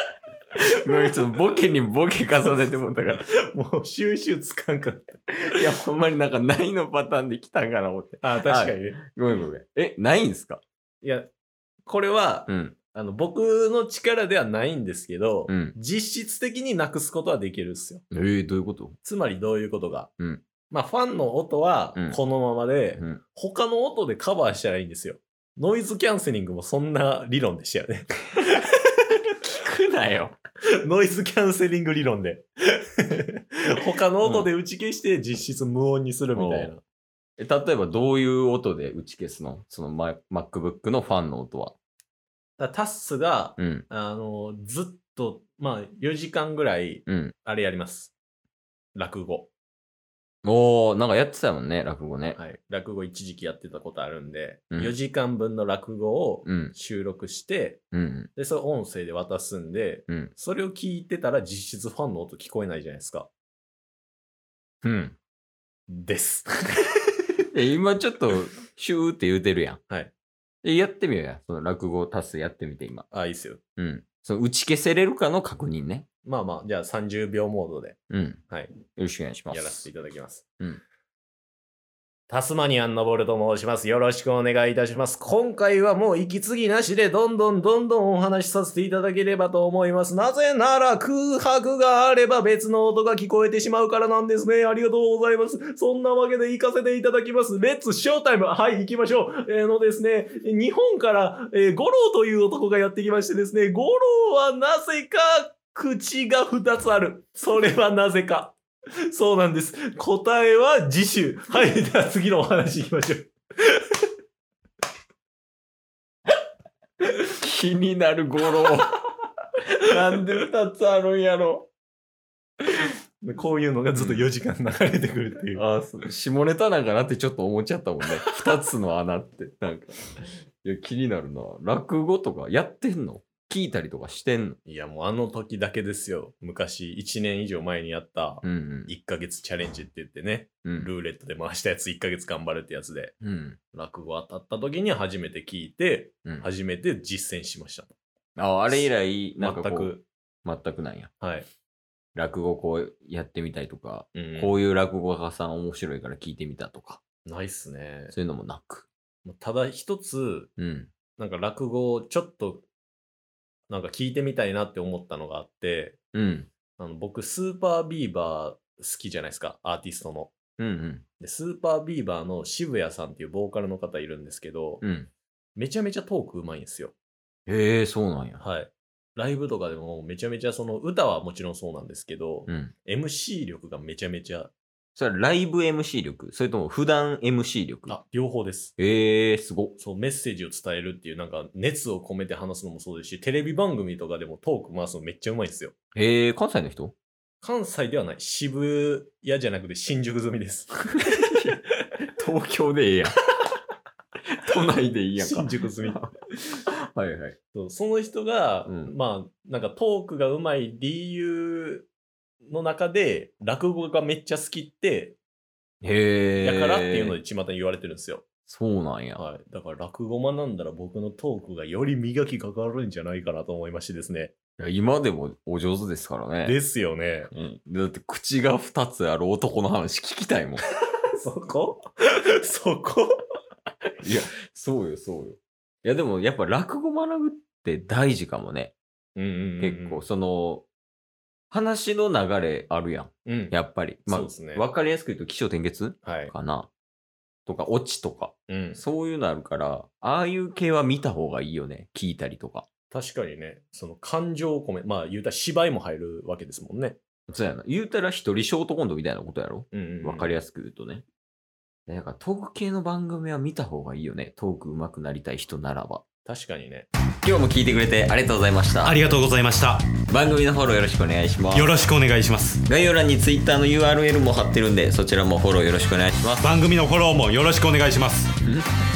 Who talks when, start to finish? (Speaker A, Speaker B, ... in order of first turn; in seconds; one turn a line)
Speaker A: 0.6-3.2
Speaker B: 3.5-5.6
Speaker A: 5.5-10.6
Speaker B: 8.2-9.0
Speaker B: 11.0-11.3
Speaker B: 11.8-18.0
Speaker A: 12.5-12.8
Speaker A: 15.5-15.8
Speaker A: 18.1-19.0
Speaker B: 19.0-20.1
Speaker B: 20.7-28.1
Speaker A: 29.4-30.4
Speaker B: 30.8-36.8
Speaker A: 34.2-34.5
Speaker A: 36.3-36.7
Speaker A: 37.4-41.8
Speaker B: 42.6-48.1
Speaker A: 43.6-43.9
Speaker A: 47.1-47.3
Speaker B: 48.9-49.5
Speaker A: 50.4-52.4
Speaker B: 52.4-57.8
Speaker A: 56.5-56.7
Speaker A: 57.9-58.3
Speaker B: 58.4-63.3
Speaker B: 64.8-65.1
Speaker B: 65.9-66.8
Speaker A: 67.5-69.8
Speaker A: 70.6-73.1
Speaker B: 73.1-73.6
Speaker A: 73.8-76.1
Speaker B: 76.2-78.0
Speaker A: 78.1-78.4
Speaker A: 79.0-79.9
Speaker B: 79.5-80.4
Speaker B: 82.3-108.6
Speaker B: 109.1-113.8
Speaker A: 117.2-119.0
Speaker A: 119.8-121.7
Speaker B: 123.2-125.6
Speaker A: 124.0-124.3
Speaker A: 125.5-134.6
Speaker B: 134.7-143.1
Speaker A: 138.4-138.9
Speaker A: 140.6-140.9
Speaker A: 143.2-143.6
Speaker B: 143.7-147.9
Speaker A: 148.4-151.1
Speaker B: 148.7-150.1
Speaker B: 151.2-151.5
Speaker A: 152.1-157.0
Speaker B: 154.1-154.6
Speaker B: 157.2-158.1
Speaker A: 158.1-158.9
Speaker B: 159.2-160.5
Speaker A: 160.6-160.9
Speaker B: 161.2-162.7
Speaker B: 163.7-166.0
Speaker A: 166.1-166.5
Speaker B: 166.8-170.4
Speaker A: 170.6-171.0
Speaker B: 171.2-174.8
Speaker A: 174.8-175.1
Speaker B: 175.6-176.9
Speaker A: 177.5-178.4
Speaker B: 178.4-184.5
Speaker A: 182.5-182.7
Speaker A: 184.9-188.0
Speaker B: 187.9-188.7
Speaker A: 188.8-189.8
Speaker B: 189.8-195.7
Speaker A: 195.9-196.9
Speaker B: 197.4-201.3
Speaker A: 201.1-201.6
Speaker A: 202.2-203.1
Speaker A: 204.4-207.4
Speaker B: 205.2-206.0
Speaker B: 207.5-211.9
Speaker A: 208.7-208.9
Speaker B: 212.4-215.2
Speaker A: 215.8-217.2
Speaker B: 216.4-218.2
Speaker A: 218.4-219.2
Speaker B: 219.2-224.3
Speaker A: 224.6-226.6
Speaker B: 226.4-227.3
Speaker A: 227.3-230.6
Speaker B: 231.2-233.2
Speaker A: 234.0-238.7
Speaker B: 239.2-240.0
Speaker A: 239.6-240.7
Speaker A: 241.5-246.7
Speaker B: 243.2-243.5
Speaker B: 244.1-244.6
Speaker B: 246.0-246.3
Speaker A: 247.4-252.7
Speaker B: 248.5-248.8
Speaker B: 252.9-257.0
Speaker A: 257.3-261.1
Speaker B: 259.7-260.3
Speaker A: 261.9-266.0
Speaker B: 266.2-266.9
Speaker A: 267.2-269.0
Speaker C: 268.8-269.9
Speaker A: 270.1-271.8
Speaker C: 271.5-272.6
Speaker A: 272.6-276.5
Speaker C: 276.4-278.3
Speaker A: 278.4-278.7